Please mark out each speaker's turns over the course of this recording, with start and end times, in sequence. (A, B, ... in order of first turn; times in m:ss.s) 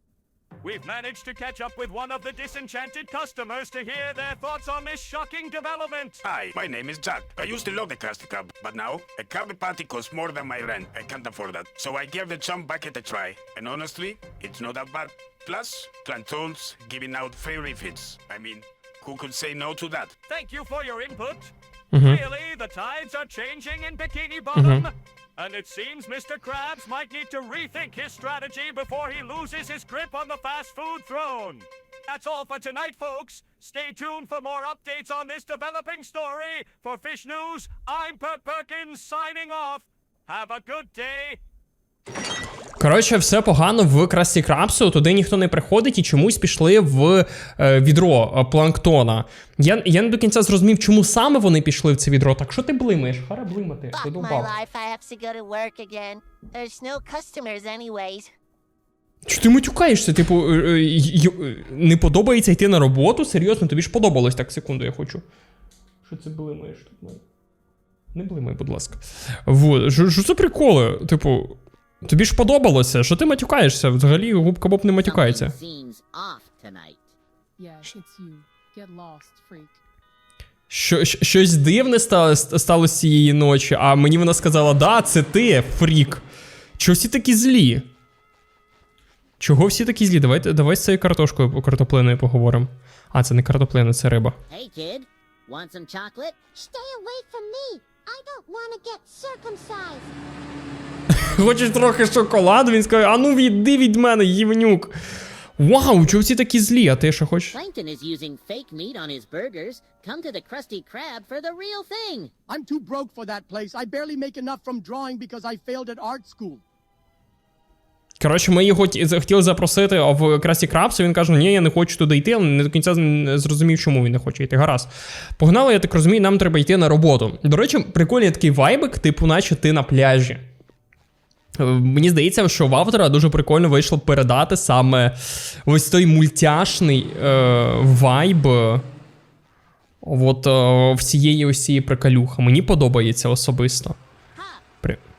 0:00.6-0:06.2 A
0:06.2-0:20.2 B
0:20.3-0:41.4 A
0:21.9-0:22.2 C
0:24.5-0:24.9 C
0:42.8-0:54.5 C
0:53.9-0:58.3 D
0:59.2-1:05.2 C
1:06.0-1:07.2 C
1:08.1-1:15.6 C
1:15.0-1:17.1 E
1:17.6-1:19.8 F
1:20.7-1:26.2 C
1:26.8-1:27.9 C
1:29.4-1:34.4 C
1:34.5-1:36.4 E
1:36.6-1:40.0 D
1:41.1-1:44.9 C
1:45.6-1:47.6 C
1:47.5-1:52.3 E
1:52.5-1:56.6 F
1:58.2-2:10.4 C
2:11.6-2:18.8 C
2:20.0-2:24.0 C
2:24.4-2:24.6 E